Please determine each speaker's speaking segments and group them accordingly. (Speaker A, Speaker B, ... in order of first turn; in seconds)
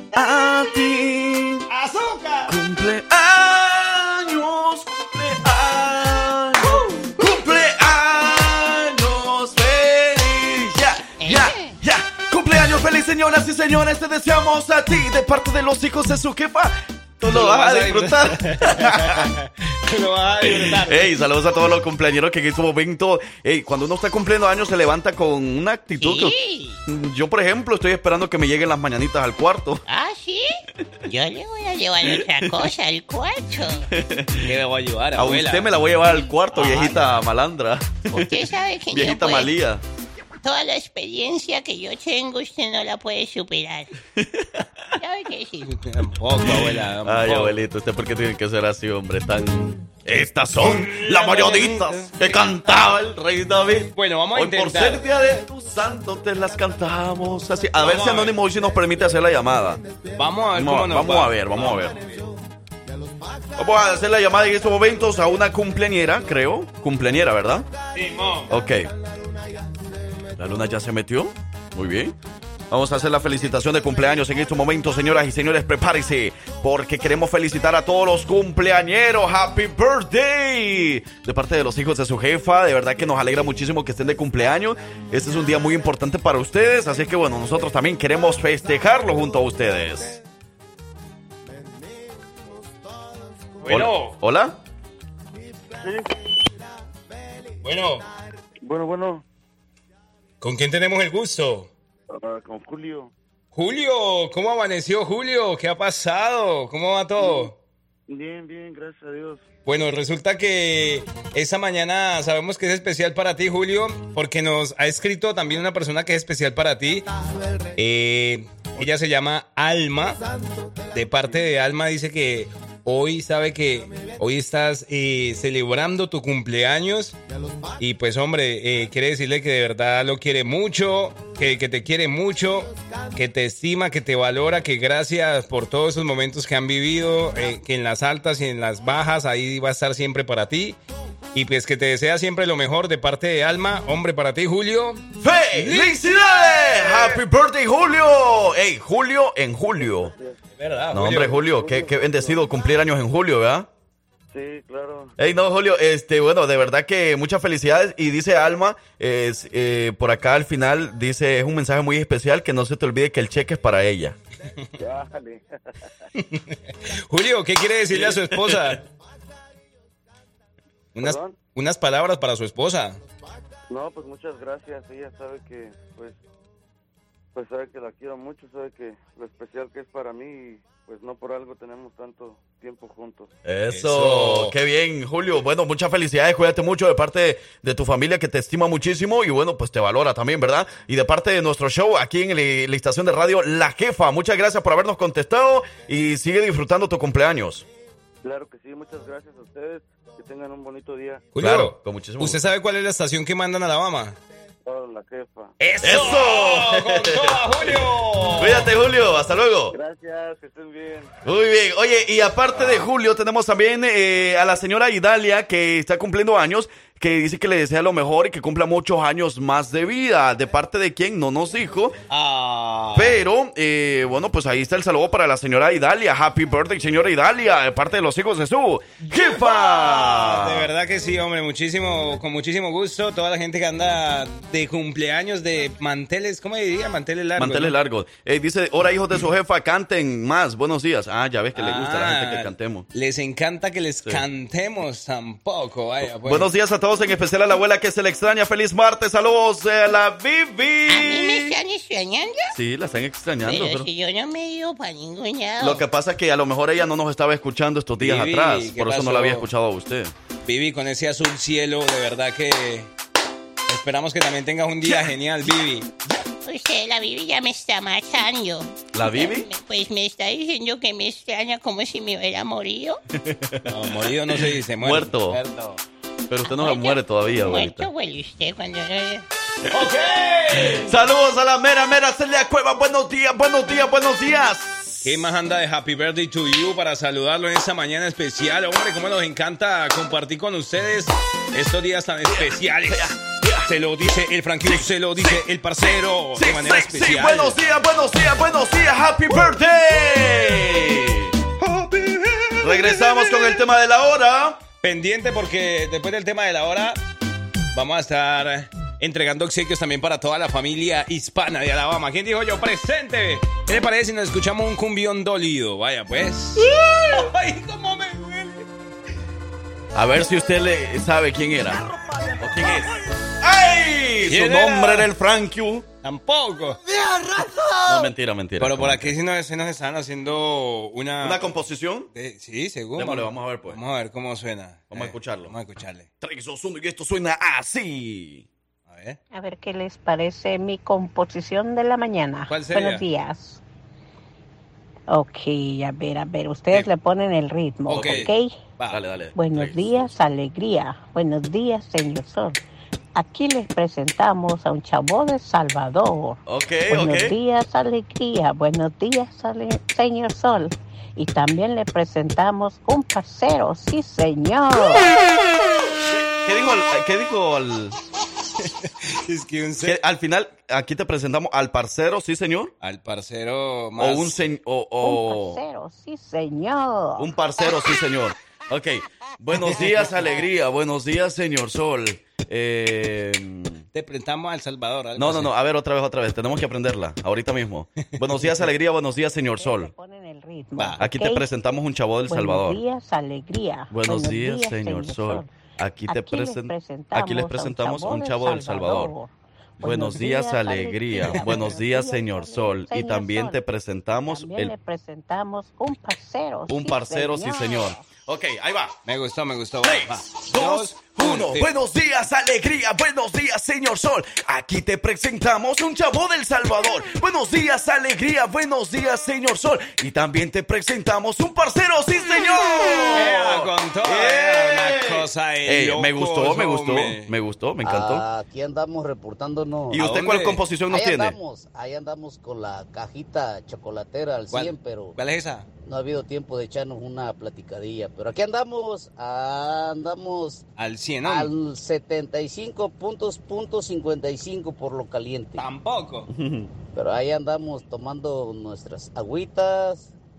Speaker A: 0.1-1.7, 2.5-19.3, 20.4-26.3, 26.9-29.8, 32.1-32.7, 33.9-34.5, 35.2-39.8, 44.2-44.6, 46.5-59.8, 60.5-62.0, 63.6-67.7, 68.5-68.9, 70.4-72.2, 72.7-90.2, 93.7-94.6, 145.2-150.1, 150.9-153.7, 155.2-164.2, 167.9-168.8, 183.4-197.7, 201.4-202.4, 205.8-207.8, 208.4-209.8, 211.2-222.0, 222.9-230.7, 237.4-242.9, 246.2-251.6, 252.5-253.9, 255.6-260.1, 268.9-269.5, 273.2-273.7, 274.8-275.4, 276.3-277.9, 280.5-285.2, 292.3-293.7, 294.6-295.4, 296.4-301.4, 302.6-304.6, 319.9-321.8, 322.4-325.9, 327.9-329.1, 331.2-332.1, 333.0-333.8, 334.9-335.5, 336.2-338.5, 347.9-348.3, 348.9-350.1, 356.5-357.4, 366.1-368.0, 369.8-372.7, 374.0-375.6, 377.2-383.8, 385.2-389.9, 391.0-392.8, 393.9-399.1, 399.8-404.7, 406.7-409.0, 409.8-428.2, 429.9-431.4, 446.4-446.7
Speaker B: 1.7-2.5, 6.6-7.4, 17.2-21.1, 34.4-35.8, 36.5-37.0, 45.7-47.6, 50.6-52.2, 54.0-55.0, 57.8-58.4, 60.2-62.2, 67.9-68.5, 93.6-94.2, 97.6-98.1, 100.4-101.7, 103.5-107.5, 109.7-117.1, 117.8-120.2, 120.9-127.2, 127.8-140.8, 141.3-145.0, 145.6-147.2, 150.6-151.4, 166.2-168.8, 170.9-173.0, 183.7-184.5, 201.3-204.2, 205.6-208.7, 212.6-212.9, 222.1-223.2, 229.1-237.8, 241.6-246.5, 258.0-259.5, 260.4-262.9, 263.7-265.9, 273.7-275.8, 279.7-280.9, 285.0-297.6, 301.6-303.6, 304.8-307.0, 307.7-318.7, 322.1-322.8, 324.3-325.1, 326.0-326.8, 328.6-331.5, 332.1-336.1, 338.9-339.2, 342.5-343.0, 347.9-349.0, 369.1-370.0, 372.8-374.4, 383.9-385.5, 388.2-388.6, 409.1-411.7, 423.1-427.3, 430.0-430.6, 434.5-435.7, 440.8-441.5, 445.6-446.3
Speaker C: 11.2-11.8, 26.0-26.8, 29.9-33.9, 38.1-39.5, 40.4-43.9, 45.0-45.8, 250.9-252.6, 253.4-255.8, 266.4-273.0, 276.5-279.2
Speaker D: 95.8-96.1, 98.6-99.2, 102.1-103.1, 107.2-107.5, 108.1-109.5, 149.8-150.4, 151.4-152.5, 154.3-155.2, 164.8-165.4, 171.0-171.4, 173.7-176.2, 177.3-183.3, 198.2-201.3, 204.7-205.5, 209.7-211.1
Speaker E: 326.9-328.1, 427.8-430.0, 430.9-435.2, 435.9-440.6, 441.2-445.6, 446.9-450.1
Speaker F: 339.3-343.6, 345.1-348.6, 349.4-352.6, 353.1-365.1, 375.0-377.3, 389.6-391.5, 392.3-395.5, 396.1-403.6, 404.1-408.0